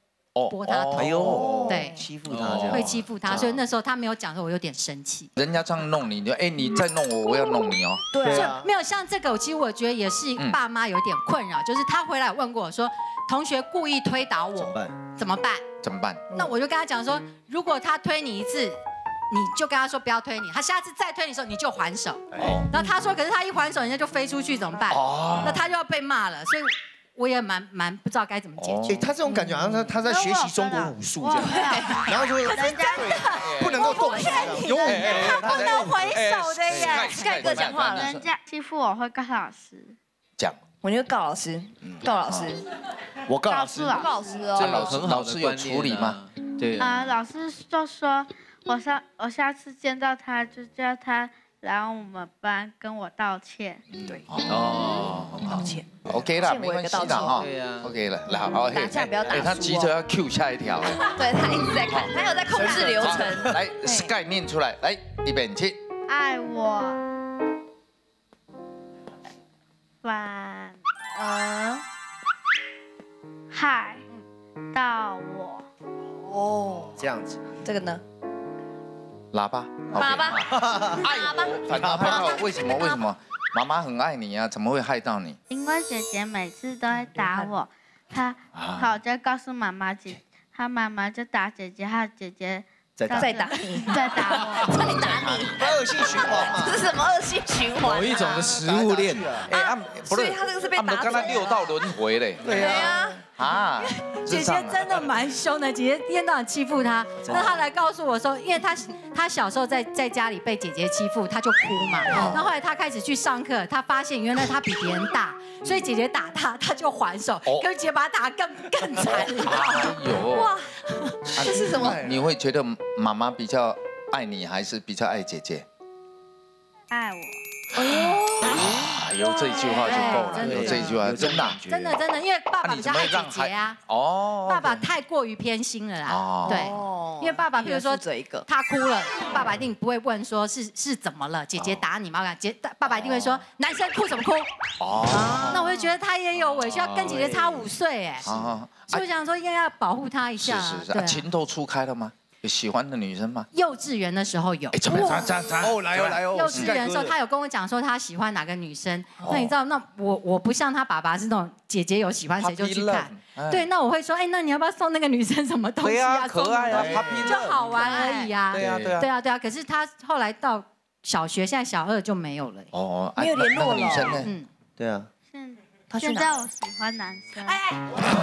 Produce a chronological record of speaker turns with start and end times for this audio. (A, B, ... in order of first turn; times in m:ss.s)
0:00.3-0:01.6 A
0:00.5-0:02.0 B
0:00.9-0:03.4 C
0:01.3-0:02.1 D
0:02.3-0:02.9 E
0:02.6-0:05.3 B
0:02.7-0:03.6 A
0:05.4-0:08.1 A
0:08.1-0:08.5 D
0:08.2-0:08.7 C
0:08.2-0:15.6 B
0:14.6-0:14.9 C
0:15.8-0:16.3 A
0:16.3-0:18.8 B
0:19.3-0:29.1 B
0:22.3-0:22.7 A
0:24.9-0:25.6 A
0:28.6-0:29.0 A
0:28.9-0:36.1 C
0:29.3-0:33.4 F
0:31.3-0:32.1 D
0:31.7-0:37.5 B
0:33.4-0:33.8 A
0:34.1-0:34.5 D
0:34.8-0:38.3 A
0:36.8-0:38.1 D
0:37.6-0:39.9 F
0:40.8-0:42.6 D
0:43.3-0:44.0 C
0:43.4-0:44.8 F
0:43.9-0:44.9 D
0:44.5-0:47.1 E
0:44.6-0:46.2 A
0:46.8-0:53.8 F
0:54.0-0:57.4 D
0:54.1-0:55.8 E
0:54.3-1:01.0 A
0:57.2-0:57.9 E
0:58.4-0:59.9 D
1:00.8-1:04.1 D
1:01.8-1:05.8 A
1:02.5-1:03.3 C
1:06.1-1:07.0 F
1:10.0-1:11.8 F
1:13.5-1:14.0 F
1:14.7-1:15.7 F
1:16.3-1:16.9 D
1:17.0-1:17.5 C
1:17.6-1:18.0 D
1:19.3-1:25.4 A
1:19.9-1:23.0 D
1:20.5-1:21.0 C
1:21.7-1:22.2 C
1:25.5-1:35.5 F
1:27.2-1:27.5 D
1:28.5-1:28.9 A
1:33.0-1:33.7 C
1:33.1-1:38.4 D
1:35.5-1:36.8 C
1:37.8-1:39.3 E
1:38.1-1:45.0 A
1:38.3-1:39.5 C
1:39.5-1:41.8 D
1:42.4-1:43.1 C
1:42.4-1:43.2 D
1:44.1-2:00.0 B
1:47.2-1:47.6 C
1:52.1-1:52.4 A
1:52.1-1:52.4 C
1:59.4-2:00.5 A
2:00.3-2:02.1 D
2:01.2-2:05.6 A
2:01.5-2:02.2 C
2:06.9-2:07.4 F
2:07.8-2:10.8 D
2:08.5-2:11.6 A
2:09.6-2:13.8 B
2:10.4-2:12.0 C
2:12.6-2:14.8 A
2:14.4-2:24.5 B
2:16.0-2:16.7 A
2:16.4-2:18.4 D
2:21.6-2:21.8 A
2:22.8-2:23.4 A
2:24.8-2:25.7 A
2:25.1-2:28.3 B
2:25.2-2:25.9 D
2:26.5-2:27.4 E
2:28.2-2:29.0 A
2:28.9-2:31.2 B
2:30.4-2:33.5 A
2:33.5-2:35.3 B
2:34.7-2:36.7 A
2:35.6-2:37.2 C
2:36.3-2:52.7 B
2:39.2-2:39.5 A
2:42.4-2:43.6 A
2:45.8-2:49.1 A
2:46.7-2:47.4 C
2:47.8-2:48.3 D
2:52.7-2:54.3 A
2:53.2-2:54.2 D
2:54.2-2:54.5 B
2:54.8-2:55.1 C
2:55.3-2:57.6 F
2:55.9-2:56.4 D
2:57.4-2:57.8 B